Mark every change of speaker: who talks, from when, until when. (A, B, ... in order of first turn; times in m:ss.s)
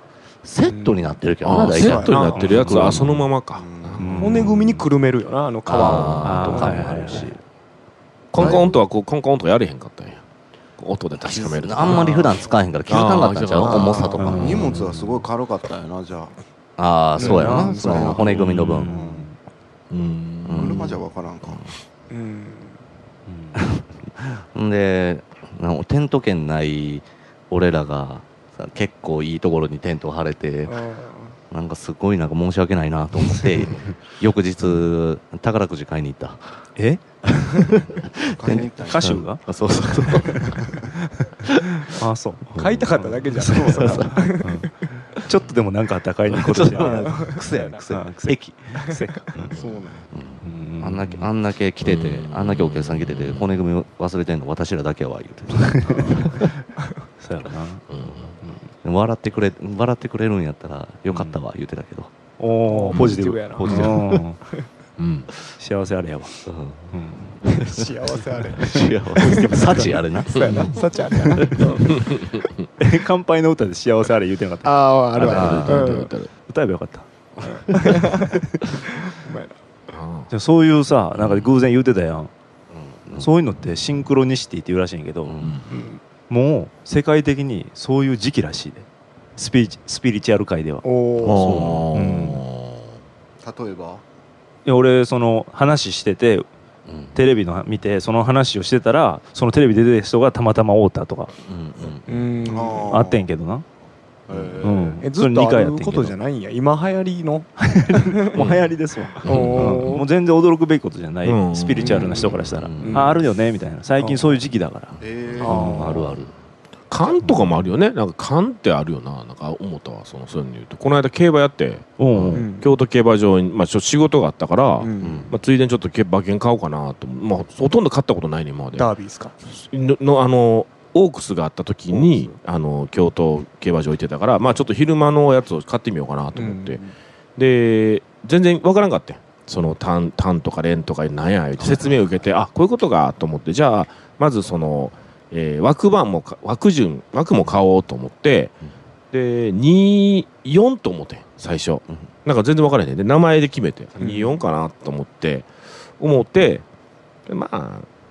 0:00.4-0:03.2 A
0:00.6-0:01.2 B
0:01.4-0:04.6 C
0:01.7-0:02.3 B
0:02.2-0:03.1 D
0:03.5-0:04.2 E
0:04.0-0:04.6 D
0:04.2-0:07.3 B
0:05.7-0:07.4 A
0:05.8-0:06.4 C
0:06.2-0:07.3 D
0:08.3-0:10.2 C
0:10.8-0:12.2 C
0:11.3-0:14.7 A
0:11.8-0:12.2 E
0:11.9-0:12.3 B
0:12.9-0:14.1 C
0:13.6-0:14.4 B
0:14.2-0:15.1 D
0:14.2-0:16.3 E
0:16.8-0:18.9 A
0:17.2-0:19.2 E
0:17.2-0:18.2 B
0:17.2-0:19.4 D
0:19.9-0:20.9 C
0:20.4-0:21.7 A
0:20.6-0:21.6 E
0:22.1-0:22.8 B
0:23.3-0:23.6 D
0:23.5-0:30.8 A
0:30.6-0:31.4 B
0:31.5-0:36.4 A
0:36.8-0:37.8 D
0:37.2-0:40.7 A
0:38.3-0:39.2 E
0:38.8-0:49.5 D
0:42.5-0:44.7 B
0:43.6-0:44.3 A
0:46.3-0:48.7 A
0:46.7-0:47.8 B
0:48.8-0:50.0 B
0:50.1-0:56.5 A
0:50.4-0:51.3 D
0:51.8-0:53.5 C
0:55.5-0:56.6 D
0:57.2-0:57.8 D
0:57.9-0:58.3 C
0:58.4-0:58.7 D
0:58.8-1:02.1 A
1:01.1-1:01.4 D
1:02.4-1:04.4 D
1:02.7-1:04.0 B
1:02.9-1:04.0 C
1:03.6-1:04.2 A
1:05.0-1:05.3 C
1:05.6-1:06.4 D
1:06.4-1:06.9 A
1:06.9-1:07.4 D
1:07.4-1:07.8 A
1:07.4-1:11.9 B
1:08.6-1:11.7 A
1:09.2-1:10.7 D
1:11.3-1:11.8 D
1:11.9-1:12.7 C
1:12.8-1:18.7 D
1:14.6-1:16.1 B
1:15.2-1:15.8 A
1:15.3-1:16.3 C
1:17.4-1:19.5 B
1:19.9-1:20.3 C
1:20.3-1:22.3 D
1:21.2-1:21.5 A
1:22.7-1:23.3 A
1:23.1-1:25.4 D
1:25.2-1:25.6 A
1:25.7-1:26.0 B
1:26.3-1:30.8 D
1:30.8-1:31.6 B
1:31.2-1:32.8 C
1:31.4-1:31.9 A
1:31.9-1:32.4 D
1:33.4-1:34.0 E
1:34.6-1:36.5 D
1:36.9-1:37.2 A
1:37.1-1:41.3 D
1:41.4-1:42.5 A
1:42.1-1:43.0 B
1:42.5-1:43.3 E
1:42.9-1:43.6 D
1:44.3-1:45.0 E
1:44.3-1:44.6 A
1:44.6-1:46.1 D
1:45.0-1:48.4 B
1:47.6-1:56.2 D
1:48.3-1:48.7 A
1:49.2-1:50.0 B
1:49.2-1:50.0 C
1:51.2-1:52.2 C
1:51.8-1:53.1 A
1:52.8-1:53.2 B
1:54.0-1:54.4 B
1:55.0-1:56.0 E
1:55.4-1:56.1 B
1:55.5-1:56.2 A
1:56.9-2:08.9 C
1:57.2-1:57.5 D
2:02.0-2:02.5 D
2:02.3-2:02.7 B
2:04.8-2:05.3 B
2:05.0-2:05.3 A
2:08.7-2:09.3 B
2:09.4-2:16.8 C
2:16.3-2:16.9 B
2:17.4-2:28.5 C
2:29.1-2:36.6 C
2:34.0-2:34.3 B
2:37.3-2:37.9 C